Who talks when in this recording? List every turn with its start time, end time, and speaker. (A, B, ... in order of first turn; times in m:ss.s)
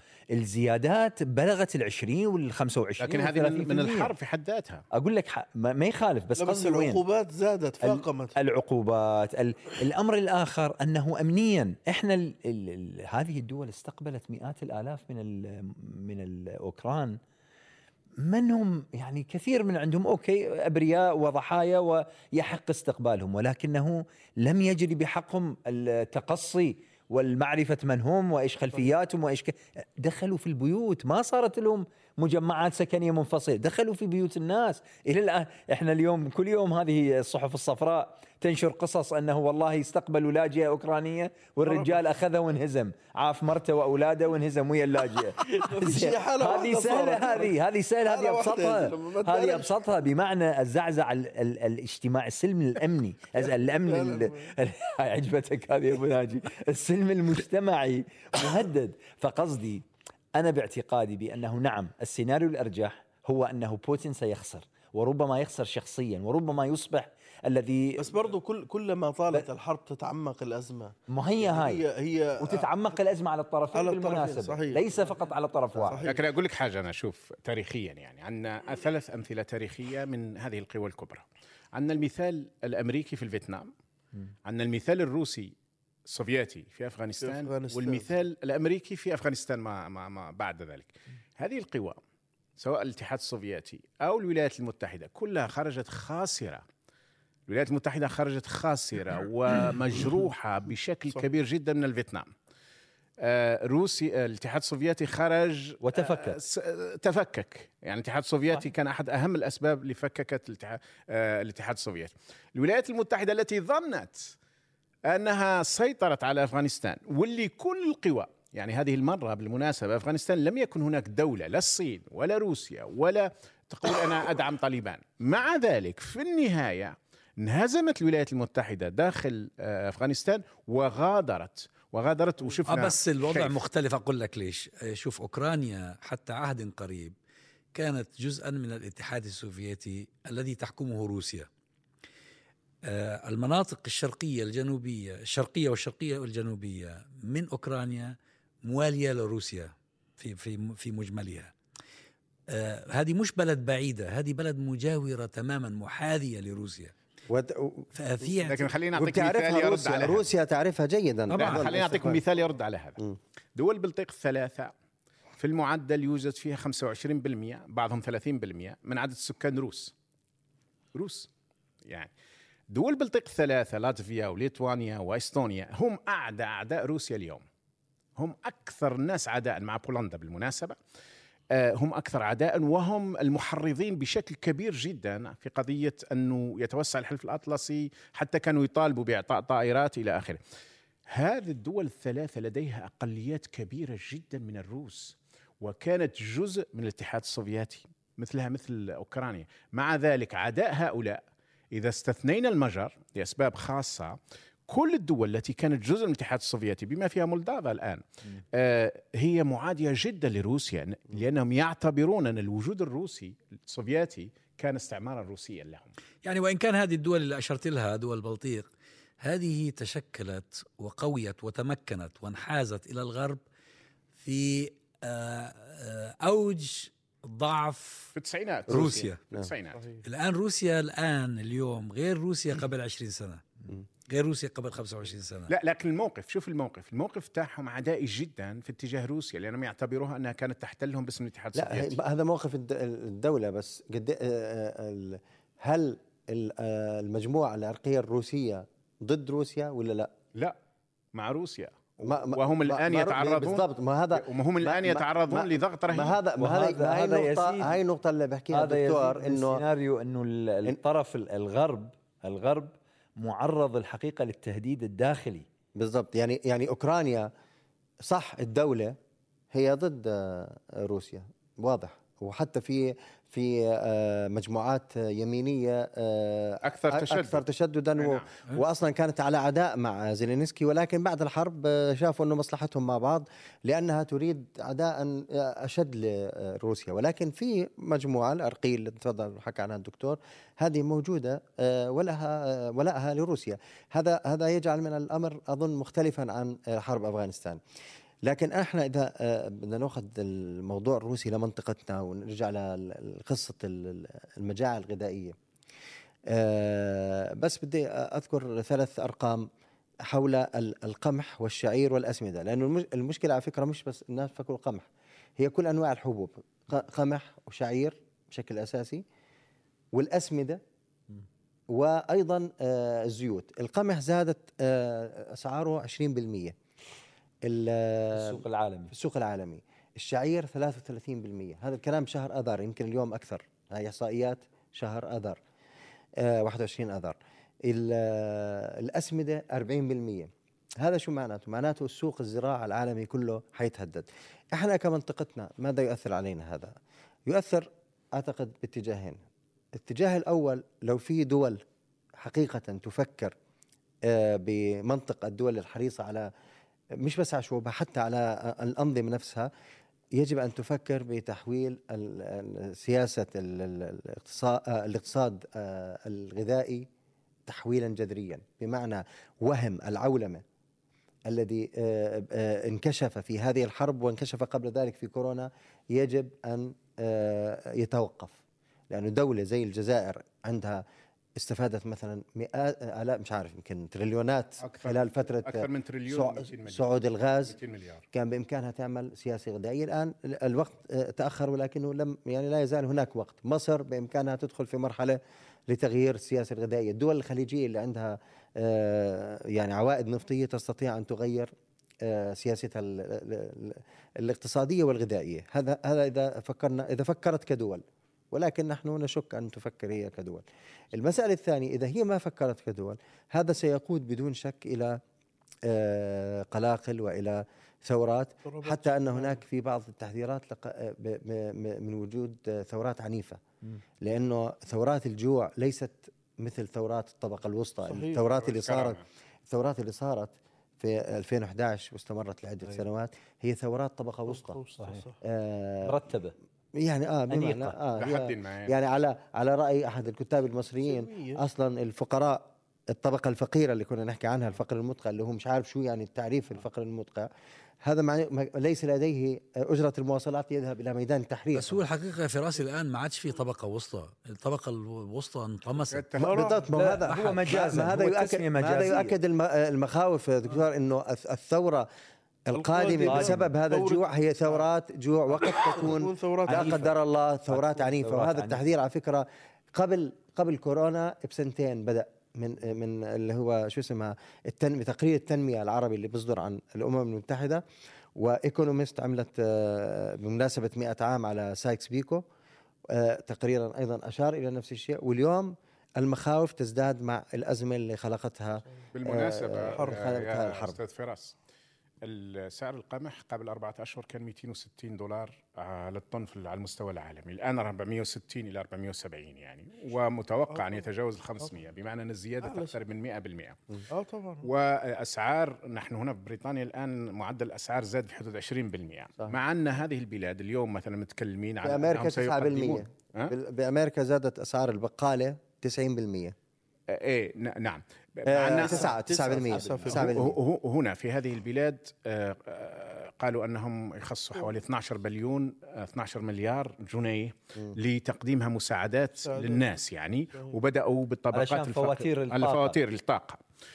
0:00.3-0:04.1 A
0:03.0-0:04.8 B
0:04.9-0:07.0 A
0:06.4-0:08.4 C
0:07.8-0:17.2 A
0:18.2-0:59.8 A
0:41.7-0:42.0 C
0:45.4-0:49.7 C
0:53.7-0:54.5 C
1:00.4-1:08.3 A
1:08.0-1:12.8 C
1:11.1-1:11.8 A
1:12.4-1:16.0 A
1:13.7-1:15.1 C
1:15.7-1:16.2 C
1:16.0-1:23.7 B
1:24.4-1:25.5 B
1:26.1-1:32.0 B
1:27.2-1:28.1 C
1:32.6-1:36.6 B
1:37.5-1:42.3 B
1:43.2-1:54.3 B
1:45.8-1:46.4 A
1:55.0-2:13.5 B
2:12.7-2:17.1 D
2:17.7-2:21.5 D
2:22.8-2:31.5 D
2:32.5-2:36.9 D
2:37.3-2:37.9 E
2:37.9-2:38.7 D
2:38.5-2:40.3 B
2:39.0-2:42.2 E
2:41.3-2:41.7 D
2:41.4-2:43.0 B
2:43.6-2:44.7 B
2:45.4-2:49.9 B
2:50.9-2:51.3 B
2:51.8-2:52.1 B
2:52.7-2:57.4 B
2:58.2-3:00.8 B
3:01.5-3:10.4 B
3:11.1-3:24.2 B
3:24.7-3:35.9 B
3:36.2-3:38.7 D
3:39.2-3:43.4 D
3:44.2-3:48.1 D
3:48.1-3:49.8 B
3:48.7-3:49.2 D
3:48.7-3:49.5 E
3:49.8-3:50.0 C
3:50.0-3:53.4 D
3:54.0-3:55.5 D
3:55.5-4:01.9 B
4:01.5-4:10.1 E
4:11.1-4:16.2 B
4:12.0-4:19.6 E
4:16.4-4:17.8 A
4:18.5-4:25.4 A
4:25.8-4:27.3 E
4:28.0-4:29.0 E
4:29.5-4:57.6 E
4:36.6-4:37.4 B
4:38.0-4:38.2 B
4:58.2-5:05.4 E
5:06.3-5:09.5 E
5:10.0-5:19.0 E
5:19.9-5:20.6 E
5:21.7-5:26.6 E
5:27.4-5:35.4 E
5:28.1-5:28.9 A
5:36.2-5:40.3 E
5:40.8-5:46.7 E
5:47.3-5:49.2 E
5:49.7-5:51.6 E
5:52.2-5:53.3 E
5:54.0-5:56.3 E
5:57.0-5:59.5 E
6:00.1-6:06.9 E
6:07.5-6:10.4 E
6:11.3-6:18.4 E
6:18.9-6:20.8 E
6:21.4-6:27.6 E
6:24.6-6:28.0 B
6:28.1-6:55.0 E
6:55.6-7:03.4 E
6:58.4-6:59.4 C
7:04.0-7:14.6 E
7:07.8-7:08.2 C
7:08.4-7:09.0 B
7:14.3-7:15.2 C
7:15.2-7:16.0 E
7:15.8-7:16.3 A
7:16.7-7:27.3 E
7:17.3-7:17.8 A
7:18.0-7:18.7 B
7:20.8-7:21.4 C
7:27.8-7:31.8 E
7:31.5-7:36.0 D
7:35.9-7:36.5 B
7:36.2-7:36.7 C
7:36.2-7:41.8 E
7:36.7-7:39.1 A
7:37.0-7:37.4 D
7:42.5-7:57.6 E
7:42.6-7:44.6 C
7:43.0-7:43.5 A
7:45.4-7:46.8 C
7:46.4-7:47.0 A
7:47.5-7:48.6 A
7:58.2-8:02.2 E
8:02.9-8:10.8 E
8:08.9-8:11.3 B
8:09.7-8:10.3 C
8:12.0-8:23.6 B
8:20.5-8:20.8 C
8:22.4-8:22.8 C
8:23.9-8:24.5 C
8:24.4-8:33.3 B
8:31.6-8:36.3 E
8:36.9-8:38.9 B
8:38.2-8:40.4 E
8:38.5-8:40.2 C
8:39.5-8:40.0 A
8:39.9-8:53.4 B
8:49.2-8:49.7 C
8:51.3-8:52.8 A